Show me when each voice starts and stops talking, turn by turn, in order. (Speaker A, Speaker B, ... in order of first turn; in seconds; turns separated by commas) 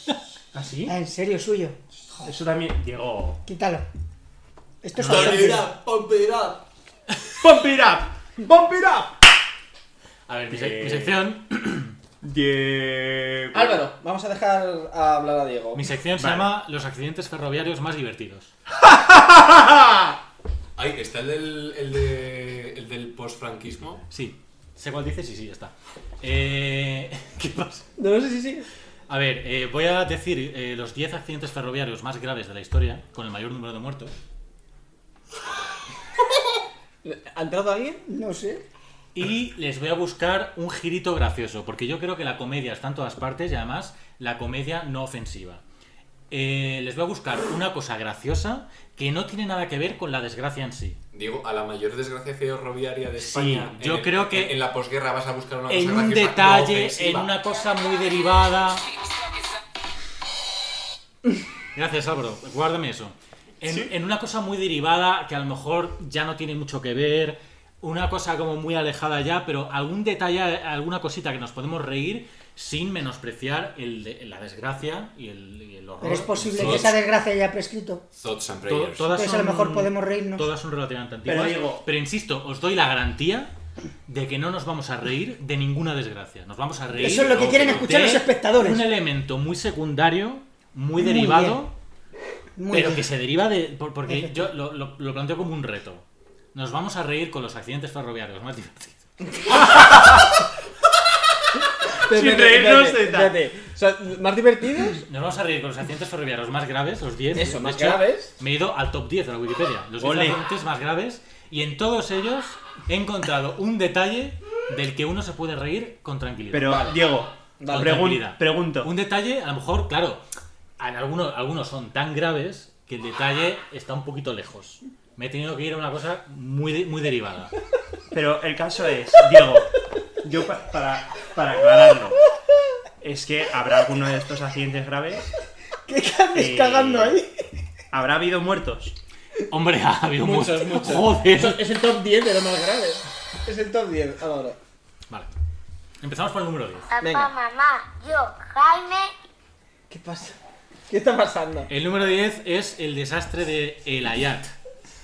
Speaker A: 0.5-0.9, Speaker B: 0.9-1.8, Speaker A: 2.2-3.5, Speaker B: 3.5-3.8, Speaker B: 4.8-5.7, Speaker C: 5.0-5.6, Speaker A: 5.0-5.6, Speaker D: 5.3-6.6, Speaker A: 7.4-9.2, Speaker C: 10.3-11.9, Speaker A: 10.5-11.2, Speaker A: 12.2-13.8, Speaker E: 13.5-15.9, Speaker C: 15.7-18.5, Speaker A: 16.2-16.5, Speaker A: 19.0-19.9, Speaker D: 20.8-24.0, Speaker C: 24.1-27.9, Speaker E: 28.0-28.7, Speaker C: 29.1-34.1, Speaker E: 37.0-38.0, Speaker B: 38.1-38.6, Speaker C: 39.1-45.6, Speaker C: 46.3-51.0, Speaker D: 51.1-57.3, Speaker C: 53.2-54.6, Speaker C: 55.7-58.9, Speaker C: 61.7-77.0, Speaker A: 63.6-63.9, Speaker B: 76.0-78.0, Speaker D: 76.5-76.9, Speaker D: 78.1-79.1, Speaker C: 78.7-83.5, Speaker B: 79.1-80.5, Speaker A: 81.2-81.9, Speaker C: 84.1-91.7, Speaker B: 86.9-88.8, Speaker D: 87.3-87.9, Speaker B: 91.0-91.6, Speaker B: 92.6-93.0, Speaker C: 92.7-99.9, Speaker B: 94.1-94.4, Speaker E: 101.9-105.0, Speaker A: 102.0-103.4, Speaker C: 105.0-116.9, Speaker E: 107.3-108.3, Speaker A: 110.0-110.4, Speaker A: 116.5-118.9, Speaker E: 117.6-118.1, Speaker C: 117.7-120.2, Speaker C: 120.8-127.5, Speaker A: 128.1-132.2, Speaker A: 133.0-135.3, Speaker B: 135.9-137.3, Speaker A: 136.3-137.2, Speaker A: 137.9-139.0, Speaker C: 139.5-141.6, Speaker E: 140.2-144.6, Speaker C: 146.0-146.9, Speaker F: 146.9-149.1, Speaker E: 147.0-147.3, Speaker E: 149.9-150.4, Speaker E: 150.9-151.7, Speaker C: 151.7-154.5